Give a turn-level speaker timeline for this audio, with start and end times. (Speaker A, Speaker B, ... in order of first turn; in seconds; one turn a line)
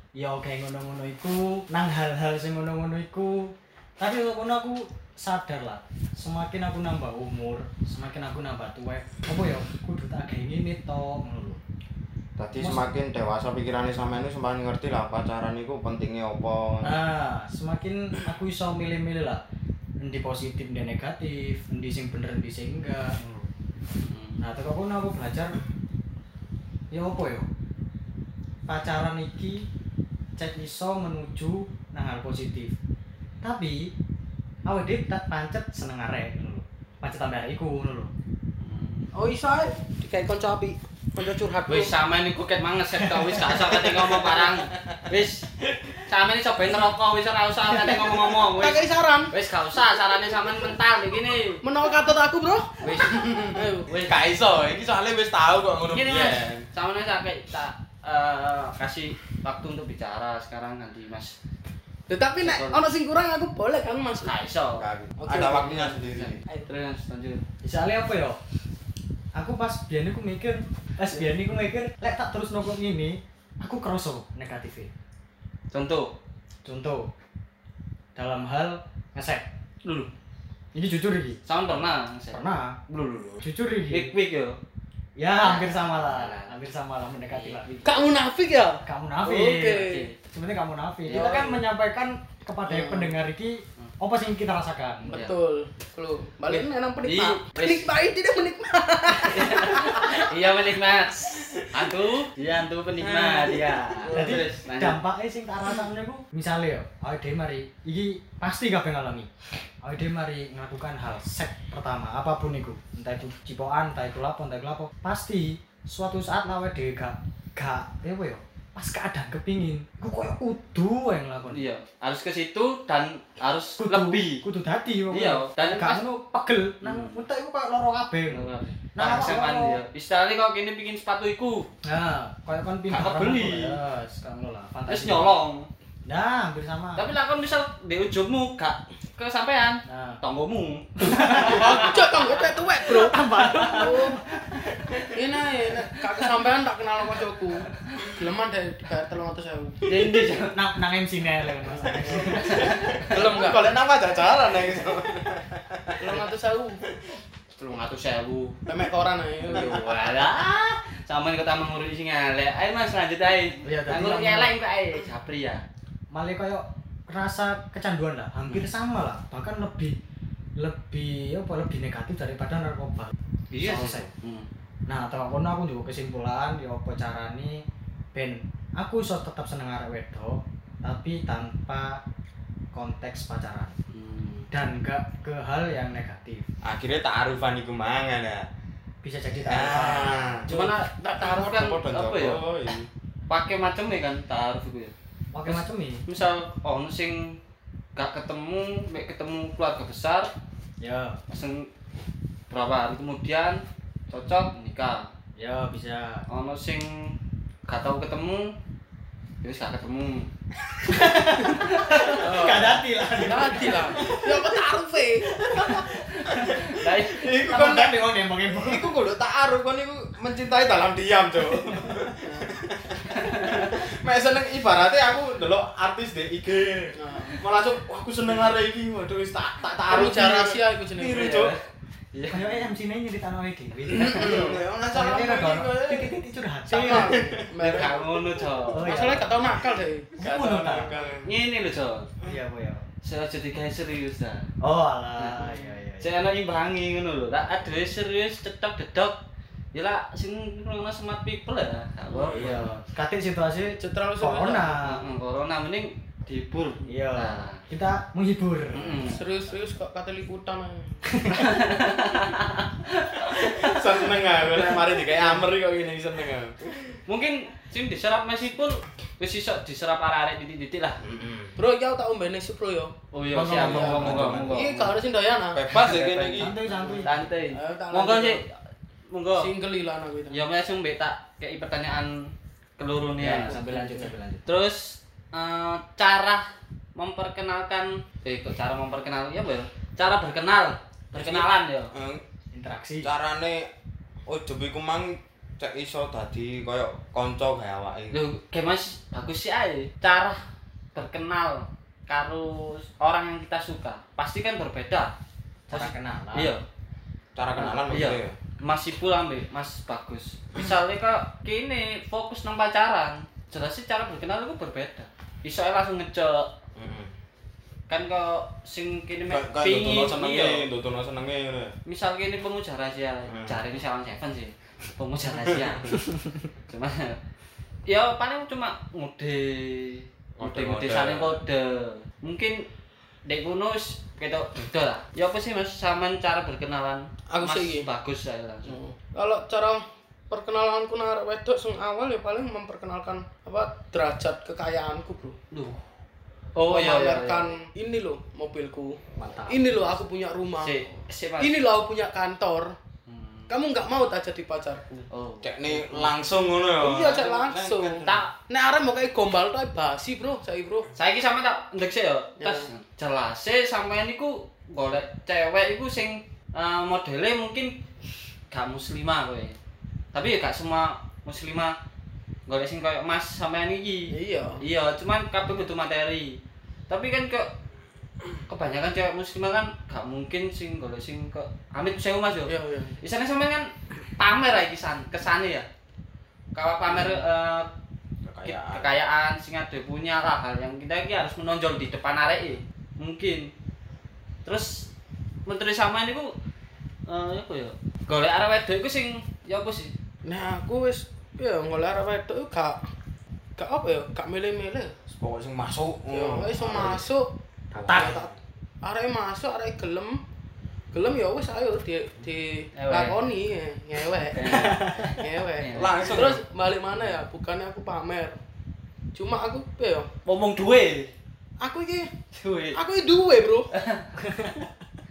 Speaker A: 0.2-11.6
Speaker B: 12.4-17.0
Speaker A: 12.6-12.9
Speaker A: 16.8-19.4
Speaker A: 20.0-23.2
Speaker C: 24.1-24.4
Speaker A: 24.4-25.6
Speaker A: 26.9-27.5
Speaker A: 28.7-29.7
Speaker A: 30.4-32.8
Speaker A: 33.4-33.9
Speaker A: 34.7-38.1
Speaker C: 38.6-39.1
Speaker D: 39.1-41.9
Speaker C: 41.7-45.5
Speaker B: 44.8-45.0
Speaker C: 46.1-51.6
Speaker D: 48.5-49.3
Speaker D: 51.6-52.8
Speaker C: 52.8-54.3
Speaker B: 53.0-56.7
Speaker D: 53.5-53.9
Speaker C: 55.9-61.4
Speaker D: 62.1-64.4
Speaker C: 62.4-62.9
Speaker C: 64.2-64.9
Speaker B: 64.8-66.4
Speaker D: 65.2-65.9
Speaker C: 65.7-67.4
Speaker A: 67.6-68.4
Speaker A: 69.3-74.9
Speaker C: 75.7-76.1
Speaker A: 76.7-77.1
Speaker A: 78.2-79.5
Speaker C: 79.8-80.1
Speaker A: 80.7-81.4
Speaker C: 81.5-84.6
Speaker A: 82.3-82.8
Speaker A: 83.4-84.1
Speaker A: 85.2-87.7
Speaker C: 85.4-86.5
Speaker C: 87.3-87.9
Speaker D: 87.8-90.1
Speaker A: 88.8-95.2
Speaker C: 89.7-90.1
Speaker C: 91.1-91.6
Speaker D: 92.7-93.2
Speaker D: 95.1-100.3
Speaker C: 96.5-97.9
Speaker C: 99.1-105.0
Speaker D: 103.0-104.5
Speaker A: 104.1-109.3
Speaker A: 109.8-121.6
Speaker C: 121.5-124.4
Speaker A: 123.8-129.8
Speaker C: 125.1-126.0
Speaker C: 126.8-127.2
Speaker C: 128.3-131.7
Speaker A: 131.8-135.4
Speaker C: 132.9-133.8
Speaker C: 134.9-135.7
Speaker A: 136.1-137.1
Speaker C: 137.0-142.6
Speaker A: 139.9-140.2
Speaker A: 141.0-141.9
Speaker D: 141.3-144.2
Speaker A: 142.8-144.2
Speaker C: 143.6-145.1
Speaker D: 145.1-149.8
Speaker C: 147.8-148.0
Speaker C: 149.8-150.6
Speaker A: 150.5-152.7
Speaker B: 151.9-156.2
Speaker C: 152.4-153.3
Speaker D: 153.1-153.7
Speaker D: 156.0-156.8
Speaker C: 157.6-158.6
Speaker D: 158.7-160.0
Speaker C: 159.4-165.6
Speaker B: 159.5-159.9
Speaker A: 163.6-164.5
Speaker A: 166.1-170.0
Speaker A: 170.6-174.1
Speaker C: 173.5-174.5
Speaker A: 174.9-177.6
Speaker A: 178.1-182.0
Speaker A: 182.7-183.8
Speaker C: 183.9-184.5
Speaker A: 184.5-186.5
Speaker B: 186.6-188.5
Speaker A: 189.0-190.2
Speaker B: 189.4-190.6
Speaker C: 190.5-192.4
Speaker B: 191.2-192.9
Speaker C: 193.3-194.9
Speaker A: 195.3-196.0
Speaker C: 195.5-197.4
Speaker C: 198.0-200.3
Speaker A: 200.8-201.2
Speaker C: 201.3-201.7
Speaker C: 202.5-205.1
Speaker A: 205.4-206.3
Speaker C: 206.3-207.2
Speaker C: 207.7-208.5
Speaker C: 209.4-210.3
Speaker A: 210.9-214.4
Speaker C: 211.4-212.6
Speaker D: 212.2-215.4
Speaker A: 215.3-216.1
Speaker C: 216.1-217.3
Speaker B: 216.3-231.6
Speaker A: 217.3-218.9
Speaker D: 222.2-222.5
Speaker C: 223.1-223.8
Speaker D: 226.9-227.4
Speaker D: 229.9-231.4
Speaker C: 231.1-232.7
Speaker A: 232.3-234.4
Speaker B: 233.9-236.2
Speaker C: 233.9-234.6
Speaker A: 234.9-237.2
Speaker D: 236.7-238.1
Speaker B: 236.8-238.0
Speaker C: 237.6-239.2
Speaker A: 238.7-239.4
Speaker D: 238.8-241.1
Speaker B: 239.4-239.8
Speaker A: 240.2-241.0
Speaker B: 240.3-241.4
Speaker C: 241.2-242.1
Speaker A: 242.2-242.9
Speaker C: 243.0-244.5
Speaker A: 244.6-246.1
Speaker C: 245.2-249.2
Speaker C: 249.7-252.7
Speaker D: 252.1-252.5
Speaker A: 252.3-255.0
Speaker D: 253.8-254.8
Speaker C: 254.8-257.6
Speaker A: 256.9-259.0
Speaker C: 258.7-259.2
Speaker D: 259.0-261.0
Speaker A: 261.1-261.5
Speaker C: 261.3-265.4
Speaker B: 263.3-267.0
Speaker C: 267.1-271.0
Speaker B: 271.0-271.6
Speaker D: 271.6-272.9
Speaker C: 273.1-275.0
Speaker A: 273.4-273.6
Speaker B: 273.4-274.7
Speaker D: 273.5-275.6
Speaker B: 275.5-276.6
Speaker C: 275.7-278.6
Speaker A: 276.4-277.2
Speaker D: 276.8-278.4
Speaker C: 279.1-279.5
Speaker D: 279.4-280.4
Speaker C: 280.3-291.9
Speaker A: 283.2-284.4
Speaker D: 283.5-284.0
Speaker B: 291.1-292.2
Speaker A: 292.5-293.1
Speaker B: 293.0-293.7
Speaker B: 294.3-298.2
Speaker C: 298.1-300.4
Speaker C: 300.9-305.1
Speaker A: 305.7-306.5
Speaker C: 305.7-306.6
Speaker B: 307.4-308.4
Speaker C: 307.5-316.5
Speaker B: 316.8-317.1
Speaker C: 317.9-320.7
Speaker B: 319.3-321.8
Speaker C: 321.9-326.2
Speaker B: 323.3-323.6
Speaker B: 325.5-325.8
Speaker C: 326.7-327.2
Speaker C: 327.9-332.7
Speaker B: 330.4-331.4
Speaker C: 333.3-338.8
Speaker D: 337.3-337.9
Speaker D: 338.6-345.4
Speaker C: 345.5-345.8
Speaker C: 346.6-347.5
Speaker D: 346.6-350.8
Speaker A: 349.2-349.8
Speaker C: 350.6-351.6
Speaker D: 351.4-352.8
Speaker C: 353.1-353.5
Speaker D: 353.5-355.1
Speaker C: 355.1-356.2
Speaker B: 355.4-358.3
Speaker D: 356.8-360.9
Speaker C: 358.0-358.3
Speaker C: 361.0-367.8
Speaker D: 362.4-362.7
Speaker C: 368.5-369.6
Speaker C: 370.1-371.8
Speaker C: 372.5-377.5
Speaker D: 374.1-374.6
Speaker C: 378.5-385.7
Speaker D: 382.5-383.0
Speaker C: 386.5-387.7
Speaker D: 386.9-387.2
Speaker B: 388.3-388.9
Speaker C: 388.4-393.5
Speaker C: 394.4-394.9
Speaker C: 395.5-396.3
Speaker C: 397.1-399.9
Speaker D: 400.2-402.8
Speaker D: 403.6-404.9
Speaker B: 405.1-407.1
Speaker D: 406.1-407.3
Speaker A: 407.7-408.2
Speaker B: 407.7-408.3
Speaker D: 407.9-410.2
Speaker D: 410.9-418.4
Speaker C: 412.8-413.2
Speaker C: 414.3-416.2
Speaker A: 414.4-415.1
Speaker B: 415.7-416.4
Speaker C: 417.0-417.2
Speaker D: 419.1-420.1
Speaker C: 420.3-421.1
Speaker D: 421.6-422.1
Speaker C: 422.3-422.8
Speaker D: 422.7-423.7
Speaker C: 423.7-424.1
Speaker A: 424.2-424.7